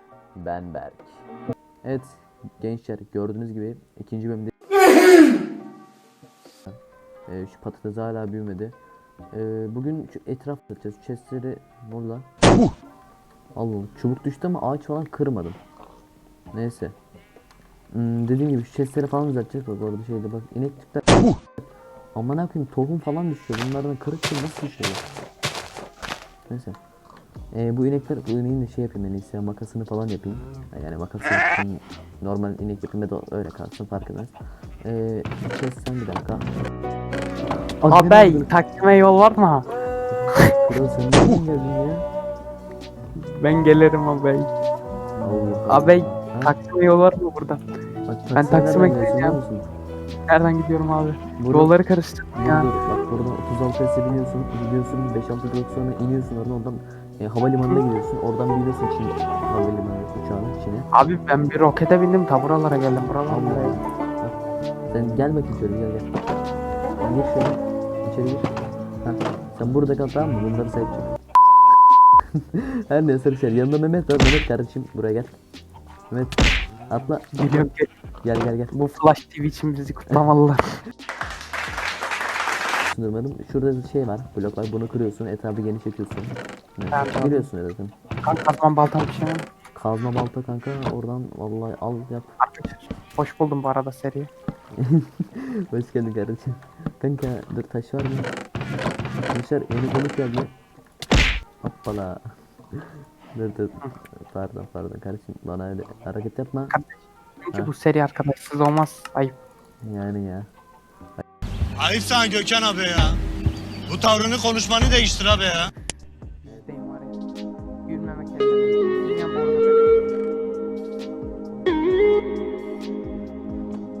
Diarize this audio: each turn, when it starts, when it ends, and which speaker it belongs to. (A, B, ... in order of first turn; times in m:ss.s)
0:00.3-0:01.2 A
0:01.8-0:04.5 A
0:07.3-0:08.8 A
0:09.3-0:12.3 A
0:13.5-0:15.6 A
0:16.5-0:16.9 A
0:17.9-0:21.3 A
0:22.1-0:25.0 A
0:26.5-0:26.8 A
0:27.5-0:36.5 A
0:37.8-0:38.4 A
0:37.9-0:39.7 B
0:40.1-0:42.0 A
0:43.2-0:44.5 B
0:45.2-0:46.5 A
0:45.7-0:47.6 B
0:48.0-0:49.7 A
0:48.3-0:49.4 B
0:50.3-0:52.7 B
0:51.4-0:51.7 A
0:52.3-1:00.9 A
1:00.9-1:03.8 B
1:03.2-1:06.1 A
1:07.0-1:11.1 A
1:12.6-1:15.4 A
1:16.1-1:17.3 A
1:17.3-1:17.9 B
1:18.2-1:18.7 A
1:18.7-1:20.8 B
1:22.8-1:27.9 A
1:26.9-1:27.5 B
1:28.2-1:29.4 B
1:29.7-1:32.3 A
1:32.4-1:34.3 B
1:34.7-1:38.3 A
1:39.3-1:40.5 A
1:41.6-1:42.2 A
1:42.7-1:46.8 A
1:46.7-1:49.3 B
1:49.8-1:50.5 A
1:51.8-1:53.2 C
1:53.9-1:55.7 C
1:56.4-1:57.2 B
1:57.8-2:00.1 B